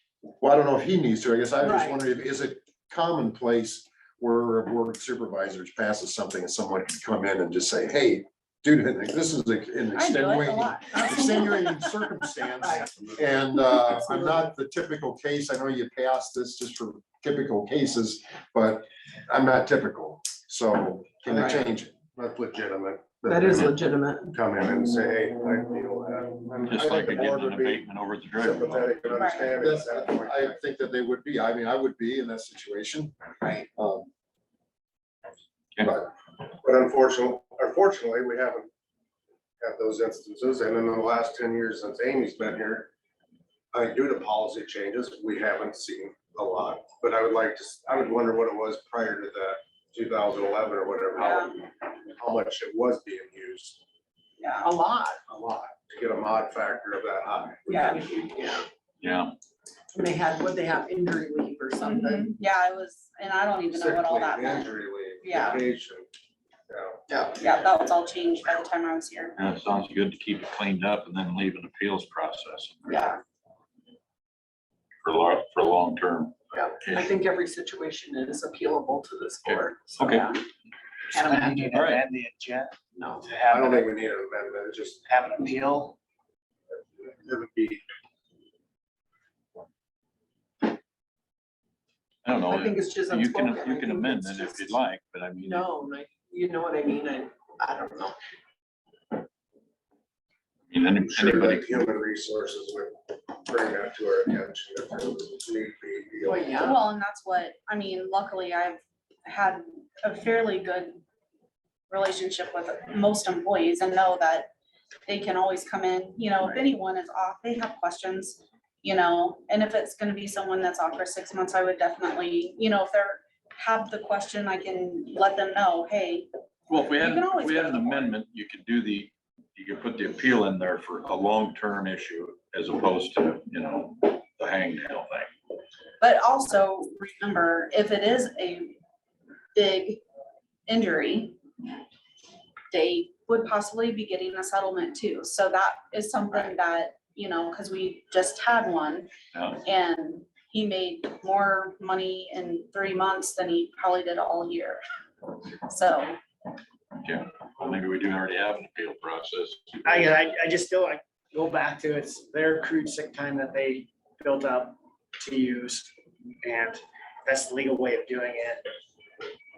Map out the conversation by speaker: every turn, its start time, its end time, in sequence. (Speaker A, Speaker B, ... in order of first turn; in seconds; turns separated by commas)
Speaker A: 0.4-21.9, Speaker B: 1.6-2.0, Speaker C: 9.9-11.8, Speaker B: 12.6-12.9, Speaker D: 21.3-30.6, Speaker B: 23.3-24.3, Speaker E: 26.7-29.0, Speaker C: 29.1-29.5, Speaker A: 29.5-34.1, Speaker D: 36.5-38.7, Speaker D: 39.6-42.9, Speaker D: 43.7-53.8, Speaker C: 51.1-51.5, Speaker C: 54.4-54.7, Speaker B: 54.6-55.2, Speaker D: 55.3-58.0, Speaker C: 57.7-58.0, Speaker B: 57.8-58.6, Speaker E: 59.0-59.3, Speaker B: 59.9-62.3, Speaker C: 61.8-65.6, Speaker D: 63.7-66.0, Speaker D: 66.7-67.0, Speaker B: 67.1-67.3, Speaker C: 67.3-69.3, Speaker E: 69.4-73.1, Speaker C: 72.9-73.2, Speaker E: 75.0-77.2, Speaker B: 76.5-80.1, Speaker E: 79.4-80.3, Speaker F: 81.1-83.8, Speaker B: 81.1-81.7, Speaker E: 81.7-82.0, Speaker B: 83.0-83.2, Speaker D: 83.5-85.0, Speaker F: 85.0-85.9, Speaker D: 87.0-87.8, Speaker E: 92.2-95.7, Speaker B: 92.4-94.7, Speaker B: 95.4-98.1, Speaker E: 100.7-101.8, Speaker D: 101.1-106.7, Speaker B: 106.2-106.8, Speaker C: 106.5-111.0, Speaker C: 111.9-114.5, Speaker C: 115.1-126.3, Speaker E: 126.7-135.3, Speaker C: 127.0-128.1, Speaker C: 136.0-138.7, Speaker C: 139.5-140.0, Speaker C: 140.7-141.4, Speaker C: 142.7-149.1, Speaker E: 149.3-149.6, Speaker C: 149.6-154.8, Speaker C: 155.7-156.2, Speaker E: 157.0-160.1, Speaker F: 159.8-168.6